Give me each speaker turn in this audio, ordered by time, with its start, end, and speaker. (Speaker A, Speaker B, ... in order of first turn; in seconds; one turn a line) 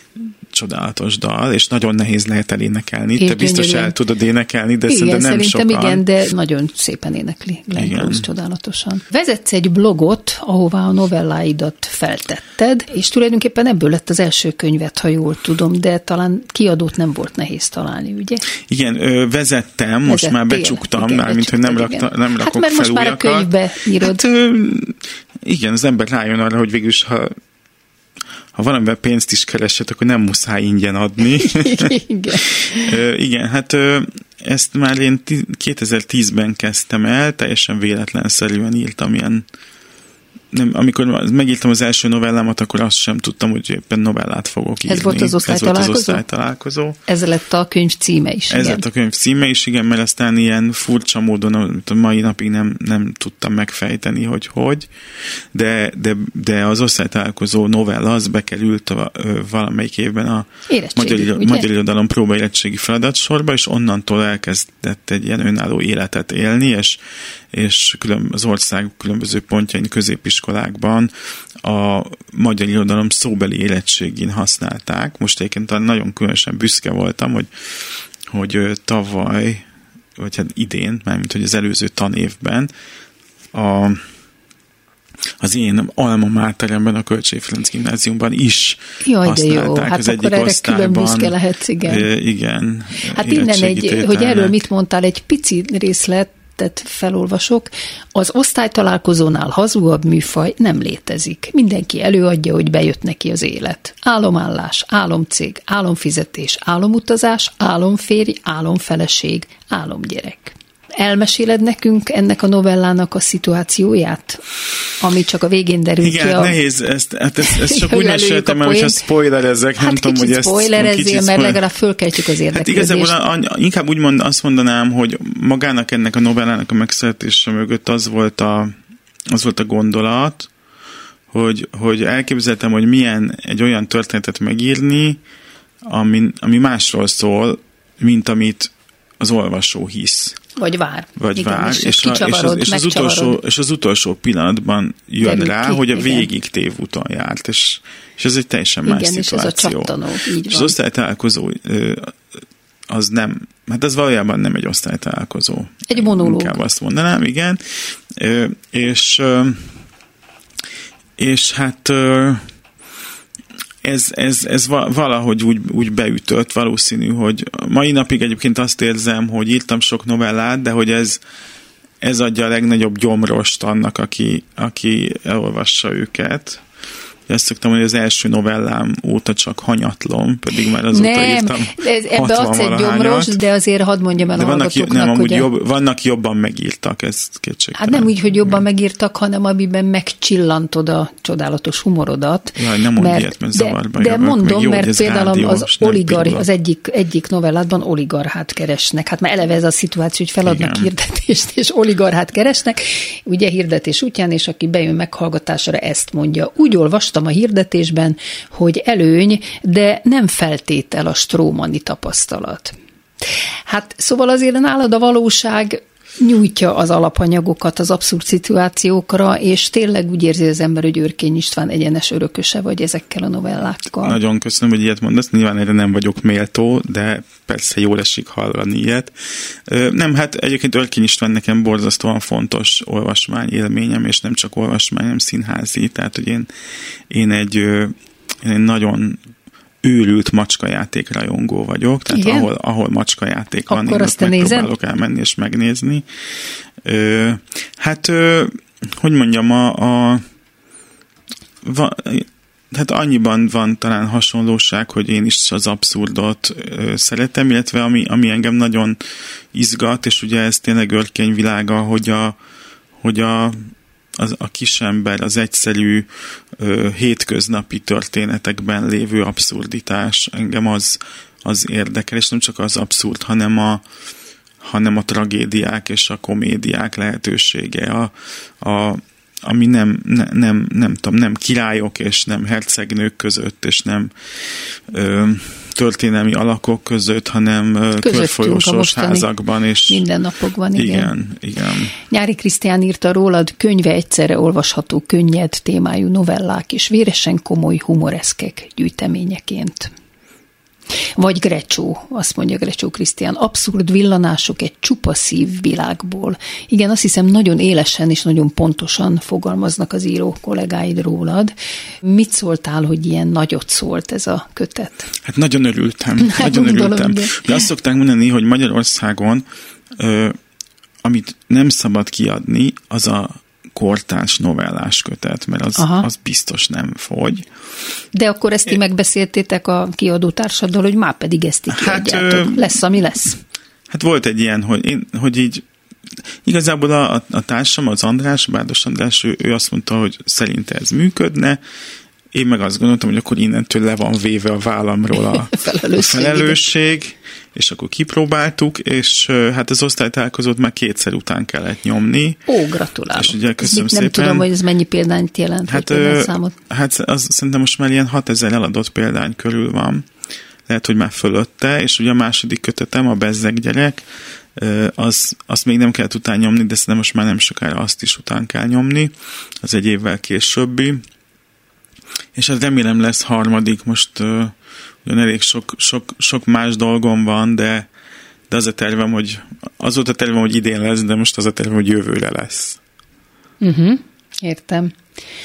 Speaker A: 0.2-6.0
Speaker B: 3.2-4.0
Speaker B: 4.9-18.4
Speaker A: 7.7-8.2
Speaker A: 18.7-23.5
Speaker B: 20.1-24.2
Speaker A: 24.0-27.3
Speaker A: 28.5-39.4
Speaker B: 31.4-32.9
Speaker A: 40.5-47.0
Speaker B: 44.9-46.2
Speaker B: 47.1-48.8
Speaker A: 48.5-54.9
Speaker A: 55.5-67.0
Speaker B: 60.7-61.7
Speaker A: 67.5-71.1
Speaker A: 71.6-77.5
Speaker A: 78.3-79.6
Speaker A: 80.2-82.7
Speaker A: 83.5-84.0
Speaker A: 85.4-91.3
Speaker B: 89.0-92.1
Speaker A: 91.8-94.6
Speaker B: 93.1-114.4
Speaker B: 115.0-116.6
Speaker A: 116.0-121.6
Speaker B: 117.4-119.0
Speaker B: 119.8-123.2
Speaker A: 122.5-128.7
Speaker A: 129.3-130.5
Speaker A: 131.3-135.2
Speaker A: 135.8-140.4
Speaker B: 140.6-143.4
Speaker A: 141.2-152.2
Speaker B: 145.2-146.3
Speaker B: 148.8-150.7
Speaker A: 152.9-159.7
Speaker B: 155.9-156.6
Speaker A: 161.2-162.4
Speaker A: 163.8-171.2
Speaker A: 172.0-176.6
Speaker A: 177.3-183.4
Speaker B: 180.9-185.5
Speaker A: 184.3-188.6
Speaker B: 187.7-212.7
Speaker A: 192.6-196.4
Speaker A: 200.4-200.9
Speaker B: 213.7-224.2
Speaker A: 224.0-229.1
Speaker A: 229.7-236.5
Speaker A: 237.1-239.2
Speaker A: 239.8-246.1
Speaker B: 242.1-242.5
Speaker B: 243.7-244.7
Speaker A: 246.8-250.2
Speaker A: 251.6-259.0
Speaker A: 259.5-262.4
Speaker A: 263.0-273.8
Speaker A: 274.6-290.0
Speaker B: 288.0-289.3
Speaker B: 289.9-291.1
Speaker A: 290.7-291.9
Speaker B: 292.1-299.9
Speaker B: 301.1-315.1
Speaker A: 315.2-320.4
Speaker B: 316.2-317.6
Speaker A: 321.0-327.4
Speaker B: 325.8-326.1
Speaker B: 328.1-333.4
Speaker A: 331.7-332.9
Speaker A: 333.9-335.6
Speaker A: 336.4-341.6
Speaker A: 342.3-352.4
Speaker B: 345.3-346.7
Speaker B: 352.5-356.5
Speaker A: 353.1-354.5
Speaker A: 355.7-360.1
Speaker A: 360.7-364.0
Speaker A: 364.6-371.0
Speaker A: 372.3-377.9
Speaker A: 378.5-382.8
Speaker B: 383.6-384.9